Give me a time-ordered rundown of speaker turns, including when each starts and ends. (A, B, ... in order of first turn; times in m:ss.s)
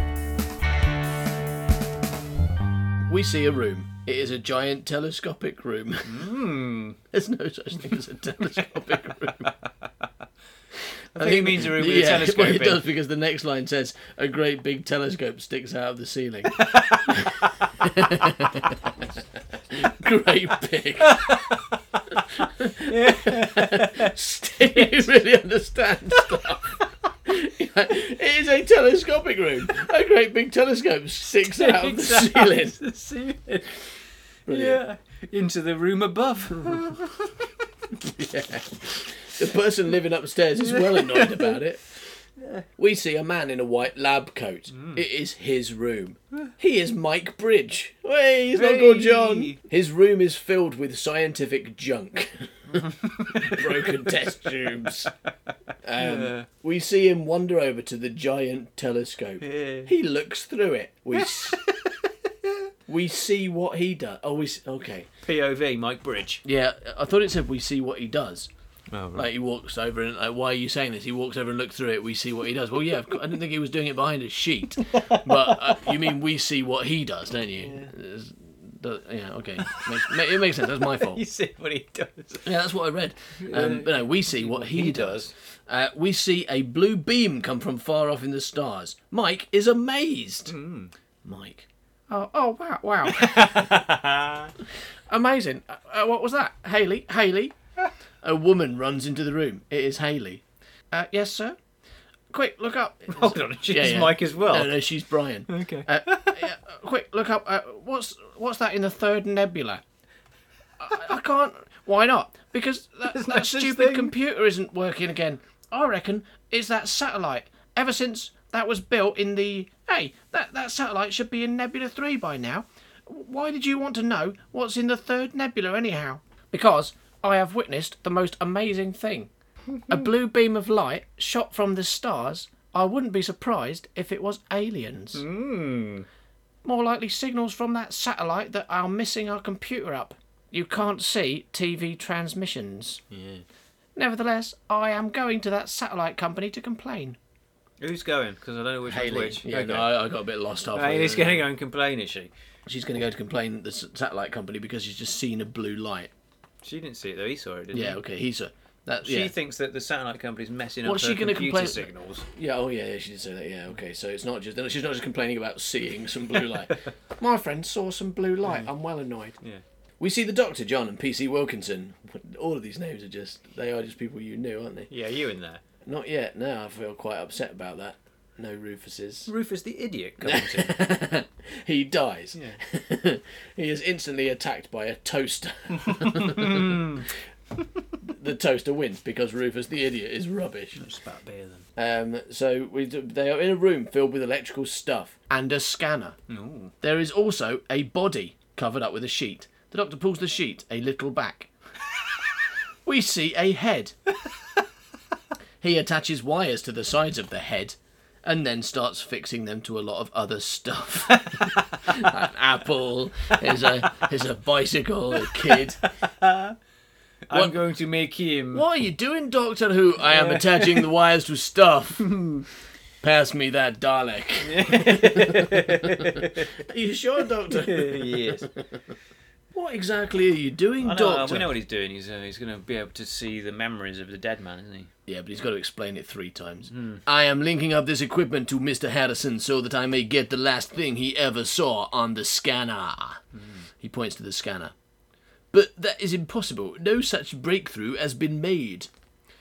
0:03.1-0:06.4 A
0:06.1-0:07.0 B
0:07.1-0:09.5 A
0:09.2-0:09.7 B
0:10.8-0:19.1 A
0:11.2-0:12.8 B
0:16.5-0:18.3 B
0:19.7-0:21.4 A
0:21.0-0:25.1 B
0:22.2-0:32.8 A
0:31.6-0:33.9 B
0:34.5-0:34.8 A
0:34.5-0:37.5 B
0:38.0-0:41.9 A
0:40.7-0:41.6 B
0:42.4-0:42.6 B
0:42.8-0:55.1 A
0:44.7-0:45.0 B
0:48.6-0:49.6 B
0:52.8-0:53.7 B
0:55.8-1:01.6 A
0:56.0-0:56.5 B
0:59.4-0:59.9 B
1:01.2-1:02.5 B
1:02.9-1:05.1 A
1:05.2-1:06.4 B
1:06.4-1:08.5 A
1:08.9-1:09.3 B
1:09.1-1:21.2 A
1:15.0-1:15.9 B
1:17.6-1:17.9 B
1:19.6-1:22.5 B
1:22.4-1:30.5 A
1:23.4-1:25.3 B
1:30.5-1:30.9 B
1:31.2-1:33.8 A
1:33.1-1:34.5 B
1:35.1-1:37.6 A
1:38.2-1:41.6 A
1:42.3-1:49.8 A
1:43.1-1:44.8 B
1:45.5-1:46.5 B
1:50.8-2:09.3 A
1:53.0-1:54.1 B
2:09.8-2:10.0 B
2:09.9-2:15.2 A
2:15.1-2:16.1 B
2:16.6-2:23.0 A
2:23.1-2:23.4 B
2:24.0-2:27.2 A
2:27.8-2:29.9 B
2:28.9-2:31.4 A
2:30.7-2:32.3 B
2:32.7-2:36.1 A
2:36.6-2:38.0 B
2:37.7-2:39.3 A
2:39.0-2:42.3 B
2:40.8-2:49.4 A
2:50.0-2:54.9 A
2:54.9-2:55.6 B
2:55.8-2:59.3 A
2:59.3-3:00.7 B
3:00.2-3:07.2 A
3:05.8-3:07.1 B
3:08.0-3:10.8 A
3:10.8-3:11.6 B
3:11.8-3:16.2 A
3:16.3-3:16.7 B
3:16.8-3:21.5 A
3:22.8-3:24.0 A
3:25.6-3:35.8 A
3:31.1-3:32.1 B
3:35.2-3:36.6 B
3:37.3-3:38.6 B
3:37.3-3:37.6 A
3:38.5-3:42.3 A
3:40.1-3:40.8 B
3:42.0-3:42.4 B
3:43.0-3:48.8 A
3:44.4-3:46.5 B
3:47.5-3:48.4 B
3:49.5-3:51.5 A
3:50.8-3:54.9 B
3:55.1-4:03.2 A
3:56.7-3:57.0 B
4:03.4-4:03.7 B
4:03.8-4:04.7 A
4:05.5-4:08.9 A